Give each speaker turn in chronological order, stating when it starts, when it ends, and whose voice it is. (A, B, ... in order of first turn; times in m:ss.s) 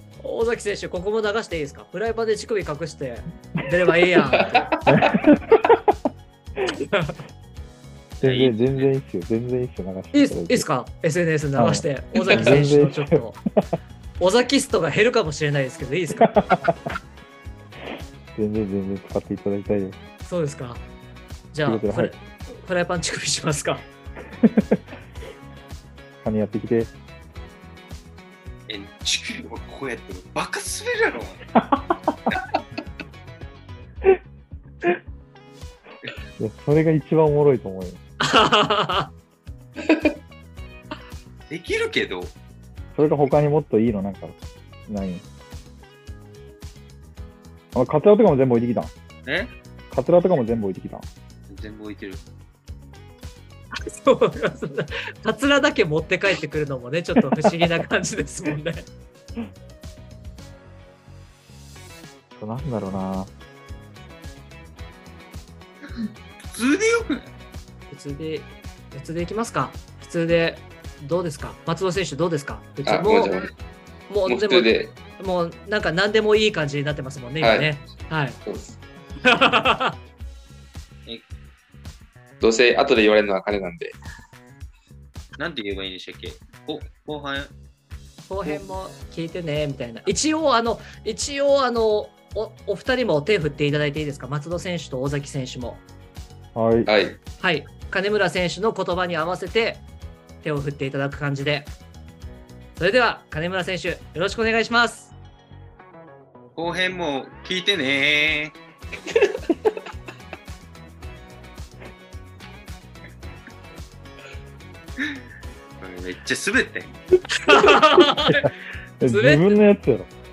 0:00.2-0:04.8 A
0:04.9-0:05.9 B
0:06.9-0:07.2 A
0:08.2-0:08.9 C
0:08.2-0:10.7 B
0:10.1-0:13.4 A
0:11.6-0:13.6 B
0:14.2-0:16.3 A
0:16.3-0:16.7 B
0:18.4-0:20.0 B
0:20.2-0:20.8 A
0:21.5-0:23.8 A
0:21.6-0:22.2 B
0:24.4-0:24.8 B
0:26.2-0:26.9 B
0:28.7-0:31.4 C
0:31.6-0:31.9 B
0:36.4-0:38.0 B
0:38.2-0:39.1 A
0:41.5-0:42.4 C
0:43.0-0:44.4 B
0:44.9-0:45.2 B
0:47.7-0:48.9 B
0:49.2-0:49.5 C
0:49.9-0:51.1 B
0:51.5-0:52.2 C
0:53.8-0:58.9 A
1:02.4-1:03.3 B
1:06.5-1:07.3 C
1:07.9-1:13.4 A
1:12.8-1:13.5 D
1:14.1-1:18.4 A
1:14.3-1:14.9 D
1:17.4-1:17.7 D
1:18.4-1:18.7 D
1:19.2-1:20.0 A
1:22.4-1:24.0 D
1:25.4-1:27.5 C
1:28.3-1:35.8 A
1:36.6-1:36.9 B
1:36.9-1:37.2 D
1:37.4-1:39.8 A
1:40.4-1:41.7 A
1:42.8-1:45.1 A
1:46.6-1:48.6 C
1:55.8-1:57.0 C
1:57.4-1:58.5 A
1:59.0-2:00.1 B
1:59.0-1:59.6 A